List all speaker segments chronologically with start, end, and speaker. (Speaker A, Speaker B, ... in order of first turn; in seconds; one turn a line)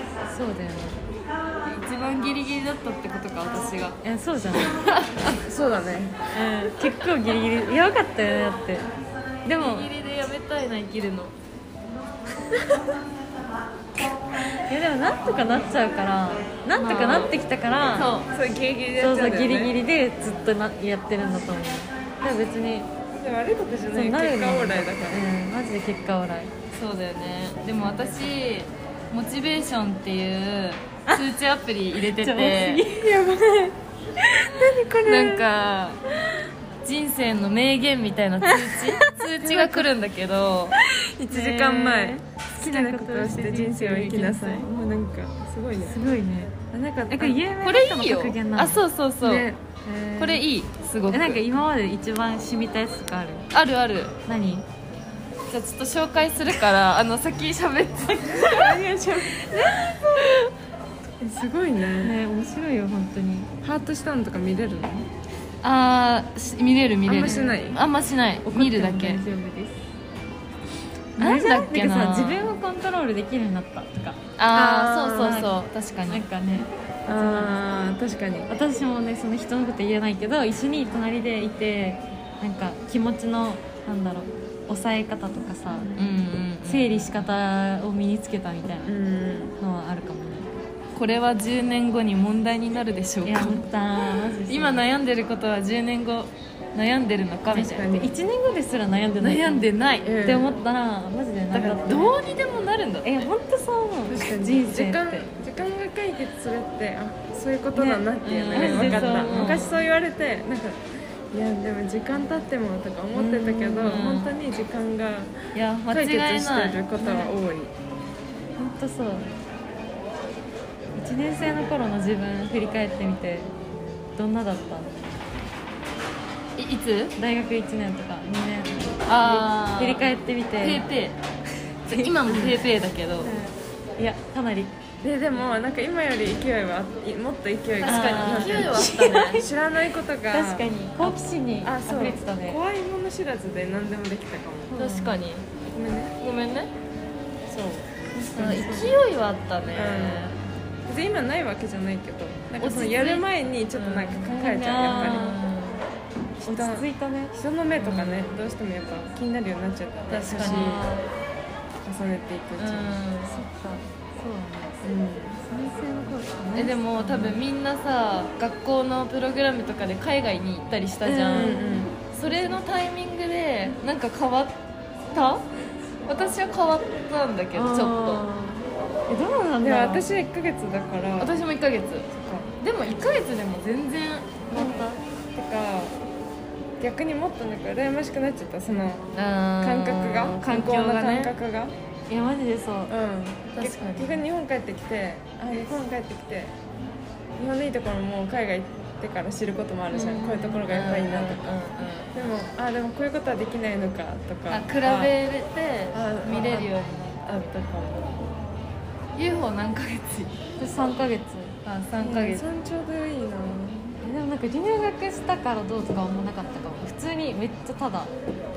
Speaker A: 0.3-1.0
Speaker B: 1.6-4.0
Speaker A: 4.0-4.8
Speaker B: 4.6-5.4
Speaker C: 5.4-6.2
Speaker A: 6.3-8.9
Speaker A: 9.4-9.9
Speaker B: 9.6-11.3
Speaker A: 14.7-18.1
Speaker B: 16.8-17.4
Speaker B: 17.9-18.3
Speaker C: 18.3-19.8
Speaker A: 19.0-22.9
Speaker C: 23.1-25.3
Speaker A: 23.9-26.5
Speaker B: 26.7-32.8
Speaker A: 32.1-33.1
Speaker C: 33.0-33.8
Speaker C: 34.4-35.5
Speaker B: 35.0-36.0
Speaker B: 36.8-40.8
Speaker A: 38.4-39.1
Speaker C: 39.4-39.9
Speaker C: 41.2-46.0
Speaker B: 41.3-42.0
Speaker A: 41.3-44.6
Speaker A: 45.8-46.6
Speaker C: 46.7-47.4
Speaker A: 47.1-48.8
Speaker B: 47.6-49.5
Speaker C: 49.2-49.6
Speaker A: 49.9-50.4
Speaker B: 50.2-51.4
Speaker A: 51.1-53.5
Speaker B: 53.5-54.1
Speaker A: 54.3-54.7
Speaker B: 55.5-58.8
Speaker C: 58.4-59.5
Speaker A: 59.5-60.0
Speaker B: 59.5-60.4
Speaker C: 61.2-62.1
Speaker A: 62.0-63.5
Speaker C: 63.6-65.1
Speaker B: 65.6-69.2
Speaker C: 67.1-67.8
Speaker A: 67.2-67.6
Speaker A: 68.5-69.8
Speaker B: 71.2-72.5
Speaker A: 71.2-77.6
Speaker B: 74.4-76.2
Speaker C: 77.1-78.5
Speaker A: 78.5-86.0
Speaker C: 85.8-86.1
Speaker B: 86.0-87.2
Speaker A: 86.7-88.9
Speaker C: 88.9-89.6
Speaker A: 89.6-90.6
Speaker B: 91.0-93.7
Speaker A: 93.2-94.8
Speaker B: 94.5-97.8
Speaker C: 97.5-98.2
Speaker A: 97.5-99.7
Speaker B: 99.2-100.1
Speaker C: 100.0-100.5
Speaker A: 100.2-102.2
Speaker B: 101.5-103.2
Speaker A: 103.0-105.3
Speaker C: 104.1-110.8
Speaker A: 107.8-109.7
Speaker B: 108.2-109.8
Speaker C: 111.3-115.4
Speaker A: 113.2-114.2
Speaker B: 113.8-114.3
Speaker B: 115.5-116.8
Speaker C: 115.9-117.7
Speaker A: 117.0-117.3
Speaker A: 118.6-119.3
Speaker A: 121.0-123.5
Speaker A: 124.2-125.0
Speaker B: 126.6-127.2
Speaker A: 127.2-130.9
Speaker B: 129.1-131.2
Speaker A: 131.9-132.4
Speaker B: 131.9-133.3
Speaker A: 133.2-134.7
Speaker C: 135.0-144.7
Speaker A: 137.8-139.4
Speaker B: 137.8-139.5
Speaker A: 140.3-142.6
Speaker A: 144.7-145.2
Speaker B: 144.8-145.5
Speaker C: 145.6-146.1
Speaker B: 146.2-146.7
Speaker C: 147.5-147.9
Speaker A: 148.2-149.0
Speaker B: 148.4-150.4
Speaker C: 149.7-150.4
Speaker C: 150.9-155.4
Speaker B: 152.6-154.3
Speaker A: 154.4-155.5
Speaker B: 154.9-155.8
Speaker A: 156.4-157.3
Speaker C: 156.4-160.8
Speaker B: 157.8-158.4
Speaker B: 160.1-160.8
Speaker A: 160.3-161.1
Speaker C: 161.8-163.0
Speaker B: 162.6-163.4
Speaker A: 163.2-164.8
Speaker C: 164.8-165.4
Speaker A: 165.4-167.4
Speaker B: 166.6-171.6
Speaker A: 171.1-171.9
Speaker C: 171.3-171.9
Speaker B: 172.1-174.6
Speaker B: 175.1-175.4
Speaker B: 176.1-178.2
Speaker A: 177.5-180.1
Speaker C: 179.6-181.4
Speaker B: 181.2-182.1
Speaker C: 182.1-182.5
Speaker B: 182.6-184.7
Speaker A: 184.5-185.0
Speaker C: 184.6-185.9
Speaker C: 186.8-189.1
Speaker B: 189.2-191.3
Speaker C: 189.6-191.7
Speaker A: 192.1-192.9
Speaker C: 192.9-196.5
Speaker B: 193.6-194.2
Speaker C: 197.4-201.5
Speaker B: 199.9-202.1
Speaker C: 202.1-205.1
Speaker B: 204.5-207.5
Speaker C: 205.9-208.3
Speaker B: 209.2-210.4
Speaker A: 210.6-211.6
Speaker B: 211.7-212.5
Speaker C: 212.0-214.0
Speaker A: 214.0-218.1